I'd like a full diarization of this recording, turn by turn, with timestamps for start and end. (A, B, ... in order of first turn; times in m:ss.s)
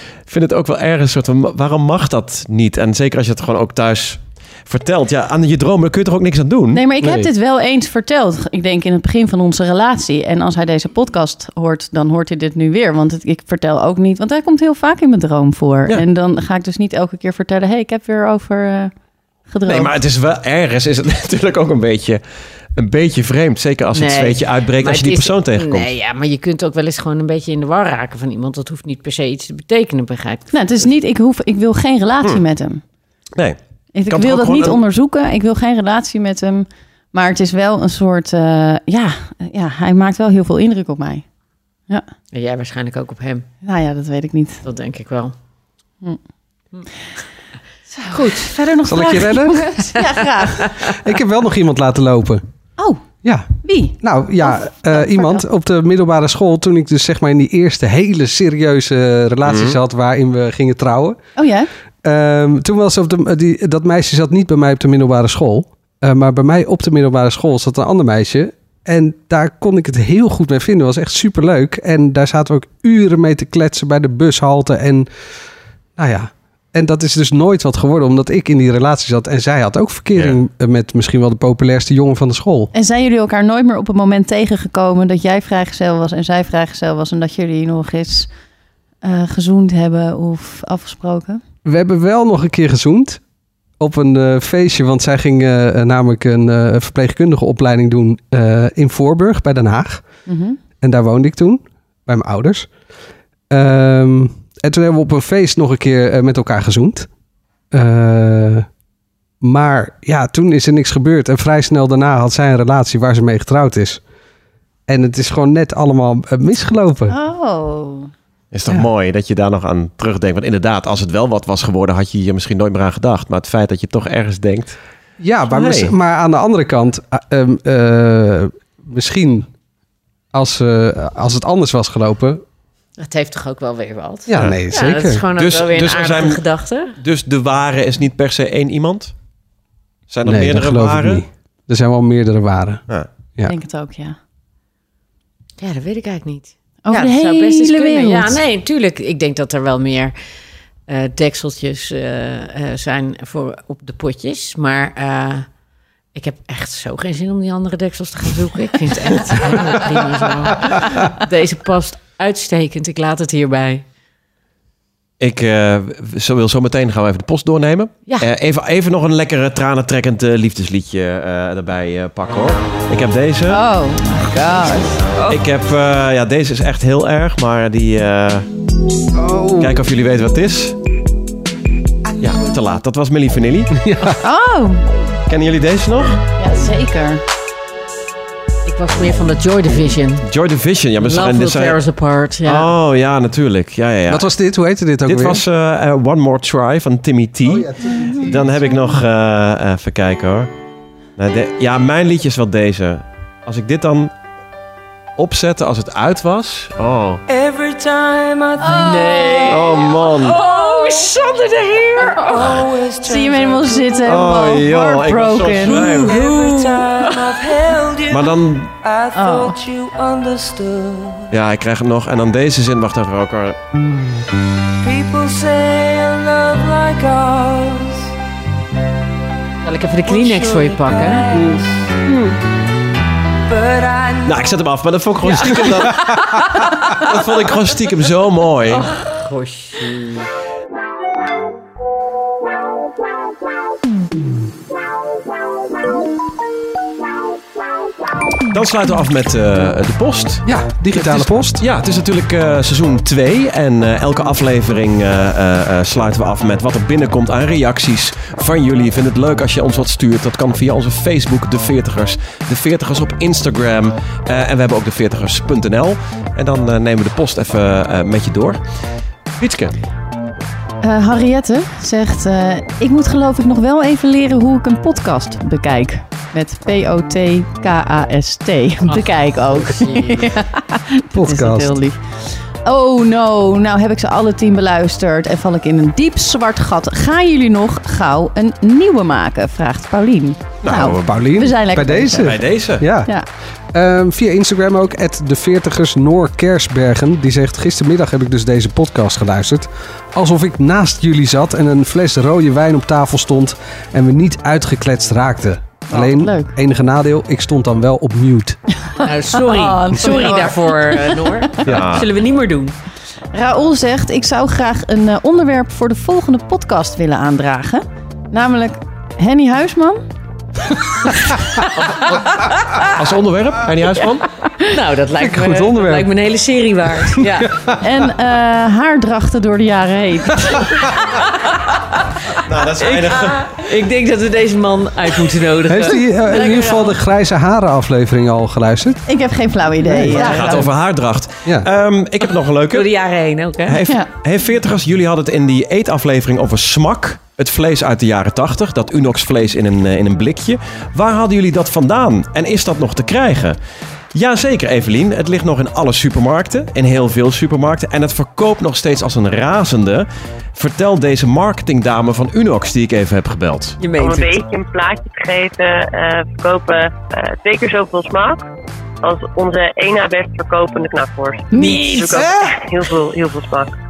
0:00.3-0:06.8 A
0:06.7-0:18.9 B
0:07.0-0:07.3 C
0:19.5-0:19.9 B
0:19.7-0:22.2 A
0:22.8-0:25.9 A
0:23.9-0:30.9 D
0:30.5-0:32.8 B
0:33.9-0:41.2 B
0:34.1-0:34.8 A
0:42.3-0:43.5 D
0:43.6-0:44.6 B
0:44.6-0:45.3 D
0:47.9-0:50.7 B
0:48.1-0:48.5 D
0:48.8-0:49.7 C
0:49.9-0:51.0 D
0:50.8-0:52.4 C
0:53.2-1:01.2 C
0:53.6-0:55.4 B
0:59.4-0:59.8 A
1:01.4-1:01.7 B
1:02.0-1:15.1 C
1:16.0-1:22.7 C
1:22.7-1:28.3 B
1:29.0-1:31.4 B
1:31.6-1:33.2 C
1:33.8-1:40.0 C
1:40.3-1:40.6 B
1:40.8-1:42.7 C
1:43.5-1:47.1 C
1:47.7-1:48.7 C
1:49.4-1:54.0 C
1:54.9-1:57.1 C
1:57.1-1:58.1 B
1:58.5-2:04.8 A
2:05.2-2:09.5 C
2:05.5-2:05.9 A
2:10.3-2:12.4 C
2:13.0-2:17.0 D
2:14.3-2:15.2 C
2:14.3-2:14.6 A
2:15.3-2:16.4 A
2:17.0-2:19.1 A
2:20.1-2:21.2 A
2:20.2-2:22.8 C
2:23.4-2:24.2 B
2:25.6-2:30.1 D
2:26.8-2:28.4 B
2:30.9-2:35.5 D
2:36.1-2:43.8 D
2:45.2-2:53.6 A
2:53.5-2:55.2 B
2:55.3-2:58.5 A
2:59.1-2:59.8 C
2:59.6-3:00.8 A
3:02.2-3:03.8 A
3:03.8-3:04.2 C
3:04.0-3:04.9 B
3:05.3-3:06.2 A
3:06.4-3:07.2 B
3:08.6-3:10.3 D
3:10.2-3:11.8 A
3:11.0-3:12.7 D
3:12.4-3:14.3 A
3:14.1-3:15.4 C
3:15.1-3:20.5 A
3:17.4-3:18.8 C
3:17.9-3:18.2 B
3:21.2-3:24.1 A
3:25.2-3:27.2 A
3:27.3-3:31.1 E
3:28.6-3:29.6 B
3:28.7-3:32.5 D
3:29.5-3:30.4 A
3:32.1-3:34.4 E
3:32.2-3:36.0 B
3:34.0-3:36.2 A
3:35.6-3:41.4 E
3:36.0-3:37.3 D
3:38.1-3:38.7 A
3:39.1-3:39.6 B
3:41.3-3:43.6 A
3:44.8-3:48.1 E
3:49.6-3:51.2 D
3:50.0-3:52.0 E
3:53.5-3:54.6 E
3:54.2-3:56.1 A
3:55.3-3:55.9 E
3:57.0-3:58.8 A
3:58.7-4:00.3 D
4:08.5-4:28.6 A
4:10.4-4:11.6 C
4:29.4-4:29.7 A
4:30.8-4:52.3 B
4:38.8-4:40.4 D
4:41.1-4:41.8 C
4:50.6-4:51.3 A
4:50.8-4:53.1 C
4:52.1-4:52.8 A
4:53.7-5:08.6 C
5:05.9-5:06.5 B
5:08.8-5:11.2 B
5:09.0-5:12.8 D
5:11.6-5:12.1 A
5:13.3-5:20.0 B
5:22.4-5:22.9 D
5:22.9-5:24.3 A
5:24.6-5:27.5 D
5:25.1-5:26.1 C
5:27.2-5:28.0 C
5:27.8-5:30.9 B
5:32.4-5:33.7 A
5:32.5-5:36.0 D
5:35.6-5:39.1 C
5:36.3-5:36.9 B
5:39.1-5:40.7 B
5:39.7-5:40.3 C
5:40.2-5:42.9 A
5:42.7-5:43.8 D
5:43.6-5:53.6 A
5:54.1-6:03.8 A
6:03.8-6:04.4 D
6:03.9-6:08.4 F
6:09.0-6:13.7 F
6:11.5-6:12.3 D
6:11.5-6:11.8 B
6:12.1-6:12.6 C